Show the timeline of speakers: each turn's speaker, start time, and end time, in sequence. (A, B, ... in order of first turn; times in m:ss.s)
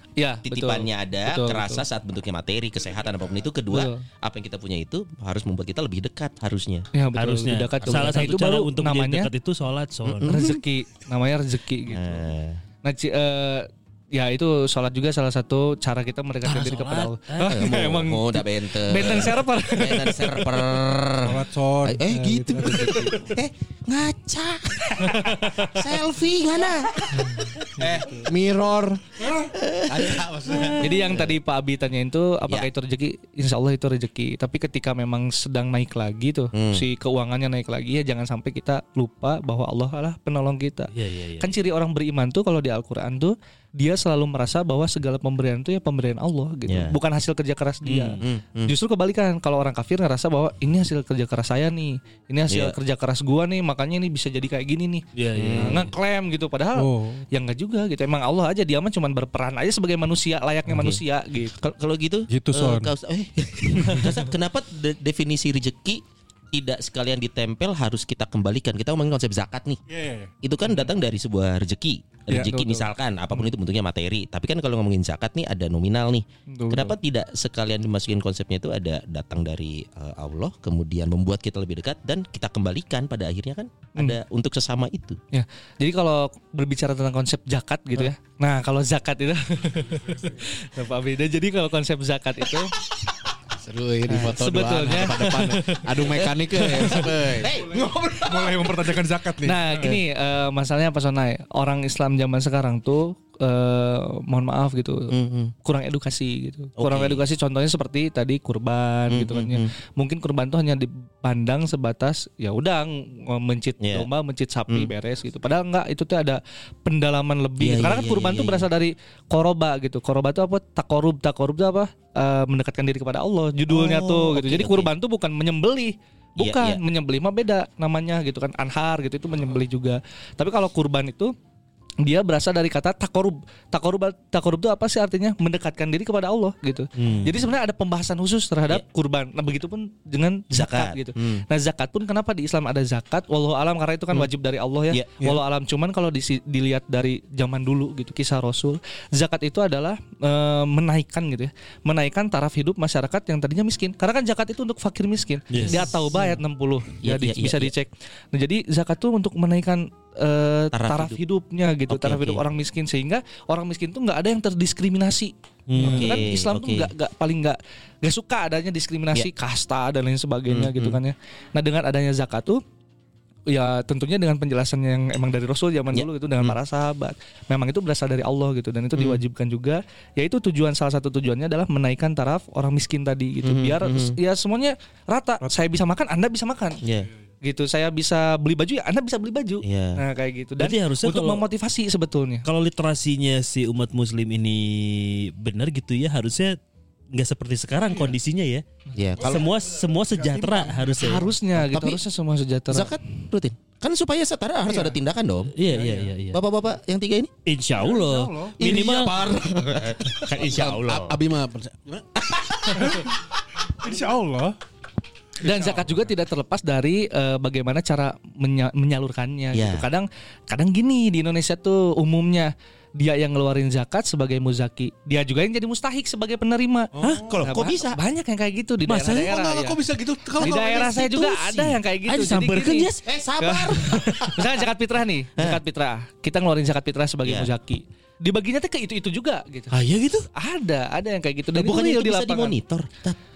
0:00.2-0:01.8 A
0:00.4-0:06.9 B
0:03.7-0:04.0 A
0:06.9-0:09.3 A
0:07.2-0:10.4 C
0:07.8-0:08.5 B
0:10.0-0:10.6 B
0:10.2-0:12.2 A
0:11.9-0:12.6 B
0:12.8-0:20.7 A
0:16.4-0:17.6 C
0:17.5-0:27.7 B
0:21.2-0:22.9 D
0:22.6-0:23.2 A
0:25.0-0:25.7 A
0:27.8-0:29.0 E
0:29.7-0:30.0 B
0:29.8-0:31.0 E
0:30.6-0:31.3 B
0:30.8-0:55.0 A
0:36.5-0:36.8 B
0:40.9-0:41.5 C
0:46.7-0:47.0 B
0:47.8-0:48.2 C
0:48.2-0:48.7 B
0:52.5-0:52.8 B
0:55.1-0:55.9 C
0:55.4-0:55.9 B
0:55.6-1:01.7 A
0:56.8-0:57.2 D
1:00.7-1:01.0 B
1:01.8-1:09.8 B
1:02.3-1:02.9 D
1:09.9-1:10.3 D
1:10.4-1:25.2 B
1:12.3-1:12.9 D
1:16.5-1:16.9 D
1:25.3-1:32.7 A
1:33.6-1:38.3 E
1:34.1-1:37.1 A
1:37.0-1:38.8 B
1:38.2-1:39.9 D
1:39.4-2:11.3 A
1:45.1-1:45.5 B
1:46.8-1:47.2 B
1:49.1-1:49.7 B
1:53.8-1:54.1 B
1:57.6-1:58.7 B
2:03.7-2:04.9 B
2:06.4-2:06.8 B
2:12.0-2:52.6 A
2:17.0-2:17.3 C
2:20.5-2:21.4 B
2:24.9-2:25.3 B
2:35.5-2:35.9 C
2:37.0-2:37.7 B
2:40.7-2:41.2 B
2:41.9-2:42.4 B
2:45.7-2:46.2 C
2:45.8-2:46.9 B
2:50.5-2:51.0 B
2:53.5-3:06.8 A
2:55.9-2:56.6 B
2:59.0-2:59.2 B
3:03.4-3:04.2 B
3:06.8-3:07.1 B
3:07.4-3:12.4 A
3:09.6-3:10.0 B
3:10.6-3:11.4 C
3:12.4-3:16.6 C
3:17.1-3:18.6 C
3:18.9-3:19.4 B
3:19.2-3:21.3 C
3:20.2-3:20.9 D
3:21.0-3:23.0 A
3:21.5-3:22.0 B
3:22.7-3:25.5 B
3:25.5-3:26.4 C
3:25.7-3:26.1 D
3:26.3-3:27.3 B
3:27.4-3:29.2 C
3:27.7-3:28.6 D
3:28.6-3:30.0 B
3:28.7-3:32.9 E
3:30.1-3:31.2 C
3:33.8-3:34.5 D
3:35.4-3:49.8 A
3:39.5-3:39.8 B
3:47.0-3:47.5 D
3:47.0-3:47.3 C
3:47.3-3:48.0 B
3:48.9-3:50.8 E
3:50.4-3:59.7 A
3:50.4-3:51.8 B
3:52.1-3:52.9 C
3:52.9-3:54.5 B
3:55.4-3:55.6 B
3:57.2-3:57.5 B
3:59.7-4:00.2 C
4:00.3-4:02.6 A
4:01.5-4:03.2 B